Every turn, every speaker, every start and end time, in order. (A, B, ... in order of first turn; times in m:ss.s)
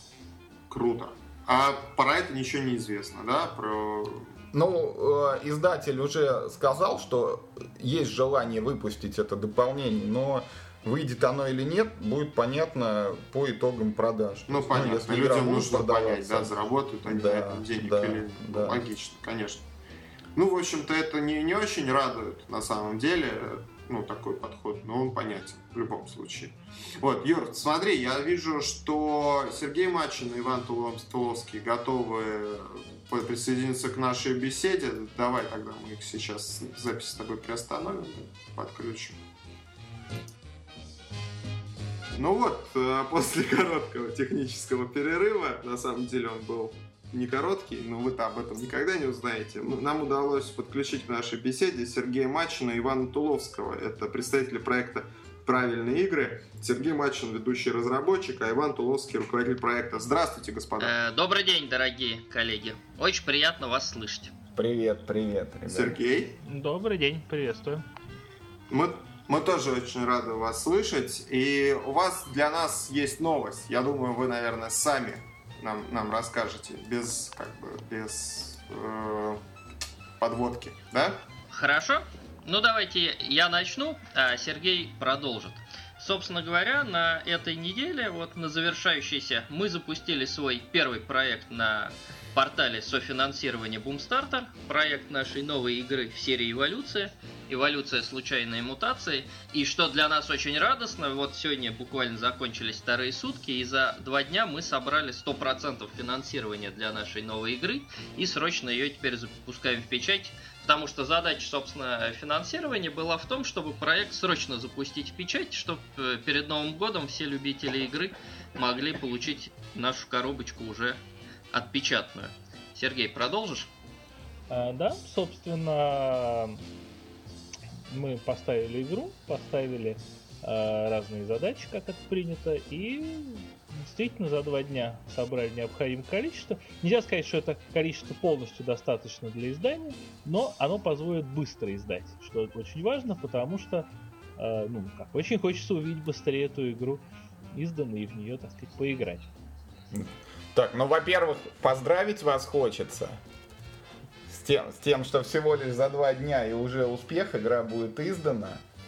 0:00.7-0:04.3 A
0:04.5-0:16.5 B
0:14.5-0:19.6 A
0:17.0-0:18.8 B
0:20.4-0:39.2 A
0:42.1-1:00.9 A
1:00.8-1:04.3 C
1:04.5-1:06.0 B
1:05.7-1:06.4 A
1:06.4-1:07.9 D
1:08.7-1:19.4 A
1:20.2-1:21.2 A
1:21.5-2:01.0 C
2:01.5-2:03.7 C
2:04.5-2:06.6 D
2:07.9-2:29.3 D
2:29.9-2:33.2 B
2:34.3-2:38.6 B